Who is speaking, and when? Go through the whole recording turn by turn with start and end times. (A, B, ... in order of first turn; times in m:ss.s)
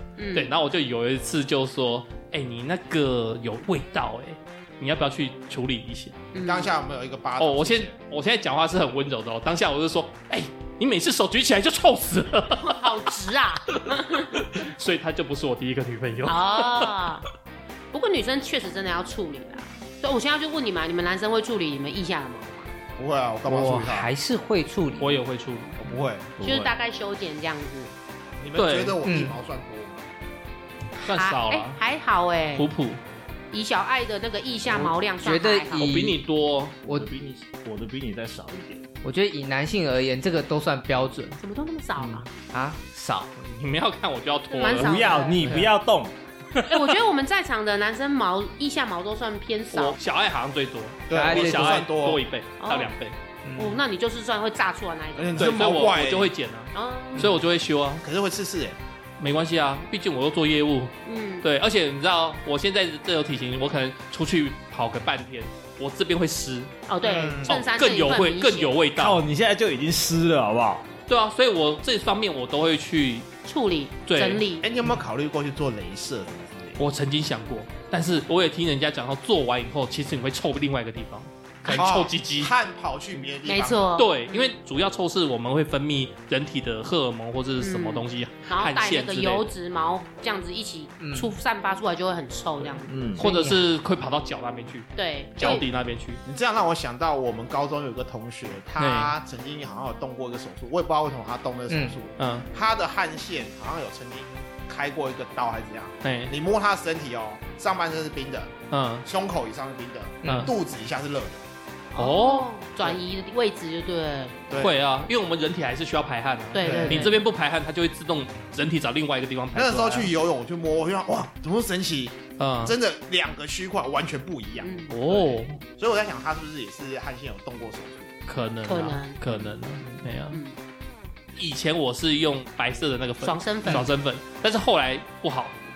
0:00.2-0:00.5 A
0:00.3-0:06.2 B
0:06.3-0:06.7 A
0:06.4-0:07.9 C
0:07.4-0:12.9 B
0:12.6-0:14.4 A
0:14.4-0:16.9 B
0:16.2-0:17.3 A
0:17.9-0:22.7 A
0:23.0-0:24.1 C
0:23.5-0:25.2 D
0:25.0-0:25.8 B
0:25.8-0:26.6 C
0:26.4-0:27.9 A
0:28.4-0:30.1 C
0:28.6-0:29.0 B
0:29.0-0:29.4 D
0:31.0-0:31.8 B
0:31.0-0:32.7 A
0:32.6-0:33.0 B
0:33.5-0:36.0 A
0:34.7-0:36.2 D
0:35.8-0:36.8 B
0:36.9-0:37.1 D
0:36.9-0:38.8 E
0:39.0-0:41.4 D
0:41.4-0:42.3 A
0:42.0-0:42.2 B
0:42.5-0:43.3 D
0:43.4-0:45.7 B
0:44.5-0:45.5 A
0:44.7-0:46.1 E
0:45.4-0:45.7 D
0:46.5-0:46.9 B
0:46.7-0:50.0 A
0:49.7-0:53.2 B
0:51.1-0:52.2 C
0:51.1-0:51.8 D
0:52.6-0:52.9 A
0:53.4-0:53.8 D
0:53.6-0:55.6 A
0:55.2-0:56.3 C
0:55.4-0:58.0 B
0:56.7-0:57.3 A
0:58.0-0:58.8 C
0:59.2-1:06.8 B
1:01.0-1:01.4 A
1:06.9-1:08.8 A
1:07.0-1:07.6 C
1:07.4-1:09.2 B
1:09.0-1:10.9 E
1:11.1-1:13.3 B
1:13.4-1:14.7 A
1:14.1-1:14.4 B
1:14.6-1:16.8 C
1:16.8-1:22.5 B
1:21.7-1:23.9 C
1:23.5-1:24.5 A
1:24.0-1:29.5 B
1:27.6-1:32.9 A
1:31.0-1:31.3 D
1:32.9-1:33.2 E
1:33.2-1:33.7 D
1:33.2-1:36.2 B
1:35.0-1:35.6 A
1:36.2-1:51.4 C
1:38.8-1:39.1 B
1:41.7-1:42.0 D
1:42.2-1:42.5 B
1:46.0-1:46.3 B
1:48.7-1:49.0 B
1:50.2-1:50.5 D
1:50.2-1:50.5 B
1:52.0-1:54.4 A
1:52.0-1:52.5 B
1:54.5-1:54.8 C
1:54.6-2:00.1 B
1:56.5-1:57.2 A
1:56.6-1:57.1 C
1:59.5-2:08.2 C
2:02.4-2:02.8 B
2:04.6-2:04.9 A
2:04.9-2:05.6 B
2:08.3-2:10.4 B
2:08.6-2:09.2 A
2:10.3-2:10.6 A
2:11.4-2:15.6 B
2:13.2-2:13.9 A